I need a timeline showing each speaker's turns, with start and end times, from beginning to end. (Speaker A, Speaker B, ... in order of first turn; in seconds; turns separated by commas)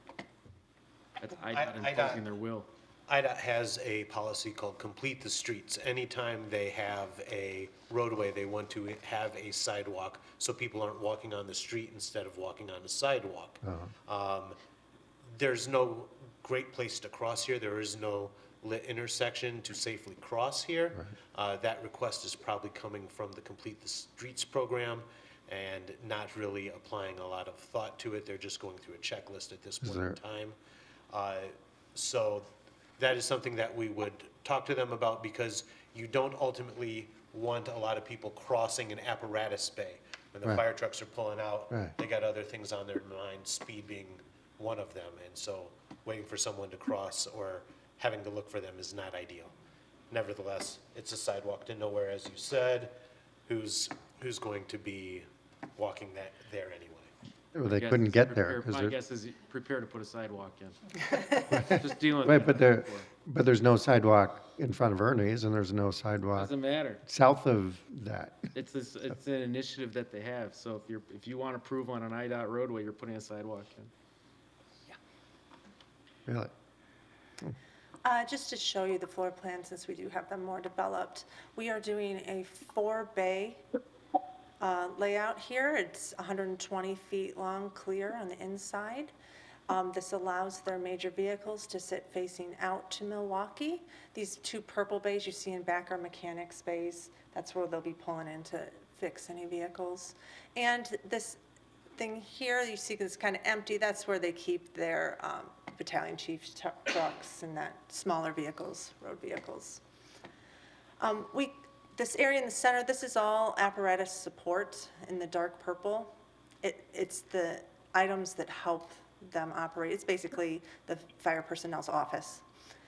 Speaker A: 1.2-2.7, Speaker B: 1.5-2.2, Speaker B: 3.1-14.6, Speaker C: 13.6-13.9, Speaker B: 15.3-30.6, Speaker C: 29.8-30.1, Speaker B: 31.1-32.5, Speaker B: 33.0-49.5, Speaker B: 50.1-52.9, Speaker B: 53.5-57.1, Speaker C: 57.5-59.0, Speaker A: 57.7-63.1, Speaker C: 61.5-68.5, Speaker A: 66.3-67.0, Speaker A: 68.5-73.9, Speaker D: 78.0-83.6, Speaker D: 84.6-89.1, Speaker D: 89.7-101.4, Speaker D: 102.0-109.8, Speaker D: 111.0-116.1, Speaker D: 116.6-122.4